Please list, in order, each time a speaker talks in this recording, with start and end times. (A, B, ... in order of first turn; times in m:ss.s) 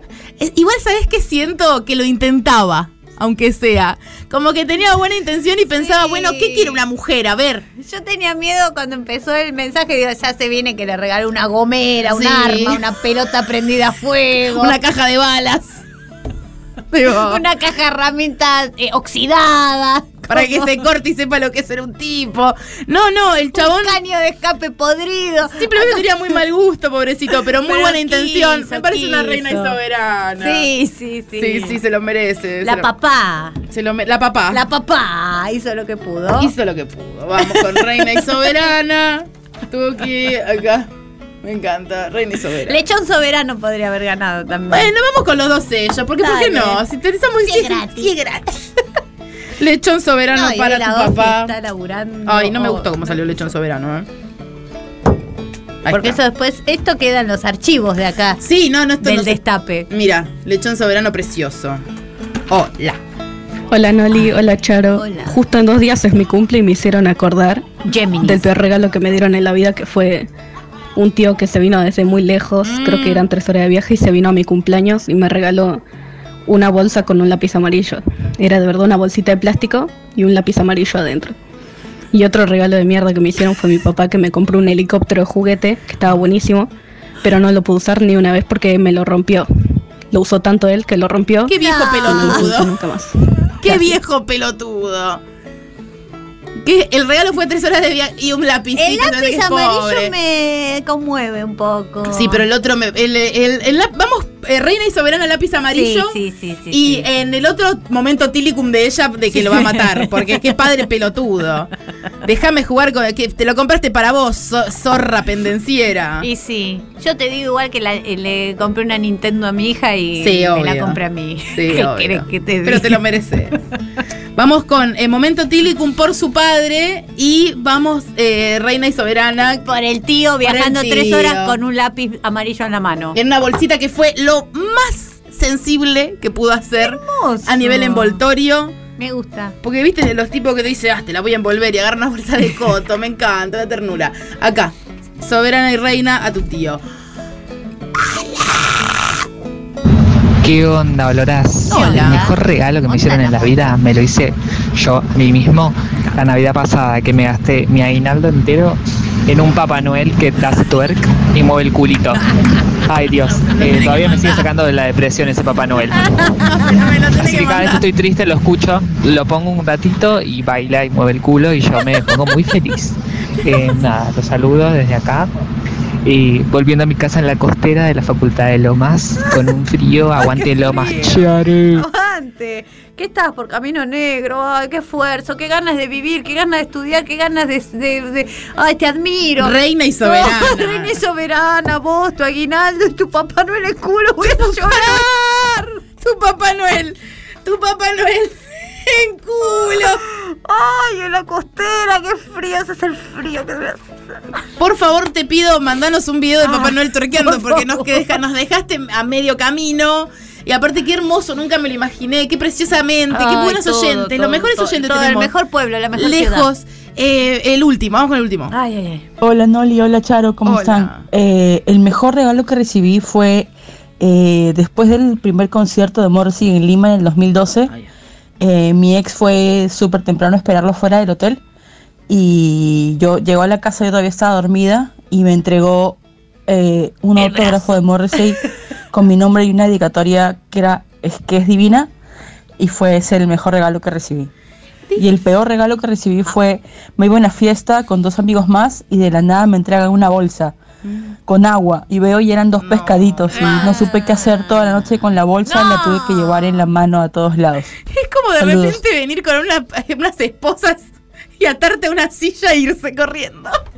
0:00.4-0:07.6 A
0:05.8-0:06.8 B
0:07.8-0:14.8 B
0:12.0-0:12.8 A
0:14.5-0:15.8 A
0:16.9-0:17.4 A
0:17.1-0:20.8 B
0:20.3-0:24.0 A
0:23.5-0:26.1 B
0:25.6-0:30.7 A
0:27.6-0:29.8 B
0:30.4-0:31.8 B
0:31.4-0:32.9 A
0:32.6-0:33.6 B
0:33.7-0:34.6 A
0:34.5-0:36.5 B
0:36.4-0:40.9 A
0:41.4-0:42.8 A
0:42.6-0:44.9 B
0:44.7-0:48.7 A
0:46.2-0:46.8 B
0:47.4-0:48.1 B
0:49.6-0:51.5 A
0:50.3-0:53.2 B
0:52.2-0:54.1 A
0:55.8-0:56.2 A
0:55.9-0:58.4 B
0:58.4-1:01.8 A
0:59.0-0:59.9 B
1:02.5-1:03.0 A
1:03.7-1:07.6 C
1:04.9-1:05.4 B
1:07.8-1:08.5 B
1:08.2-1:10.3 C
1:11.0-1:15.8 C
1:12.6-1:13.3 A
1:16.5-1:21.3 C
1:22.1-1:26.7 C
1:27.2-1:29.5 C
1:30.1-1:33.9 C
1:31.4-1:32.7 A
1:31.5-1:32.6 B
1:33.6-1:35.2 A
1:36.6-1:40.1 A
1:38.8-1:42.4 B
1:42.1-1:46.2 A
1:45.7-1:47.0 B
1:46.7-1:51.7 A
1:49.3-1:50.5 B
1:52.2-1:56.3 A
1:56.2-2:03.0 B
2:00.2-2:01.0 A
2:01.5-2:03.6 A
2:04.4-2:09.7 A
2:09.6-2:13.2 B
2:10.4-2:11.6 A
2:13.1-2:18.8 A
2:16.8-2:18.2 B
2:19.0-2:19.5 B
2:19.6-2:26.8 A
2:30.4-2:42.3 D
2:31.7-2:33.7 B
2:31.7-2:32.2 A
2:42.8-2:46.2 D
2:43.4-2:44.5 A
2:46.4-2:47.8 A
2:47.1-2:55.3 D
2:56.0-3:01.8 D
3:00.3-3:15.8 B
3:00.6-3:01.2 A
3:09.4-3:11.0 A
3:14.2-3:15.1 A
3:16.0-3:20.0 A
3:19.6-3:23.8 B
3:24.6-3:35.3 A
3:26.4-3:28.2 B
3:33.1-3:36.5 B
3:35.9-3:38.5 A
3:38.5-3:39.0 B
3:39.2-3:47.7 E
3:40.4-3:41.0 A
3:48.4-3:51.4 E
3:52.1-3:58.4 E
3:57.2-3:57.7 B
3:58.9-4:01.9 E
4:02.6-4:04.3 E
4:05.0-4:10.6 E
4:10.8-4:11.1 A
4:11.3-4:17.7 E
4:12.6-4:13.9 A
4:13.3-4:14.8 B
4:15.4-4:16.6 B
4:17.9-4:23.6 A
4:18.4-4:18.8 E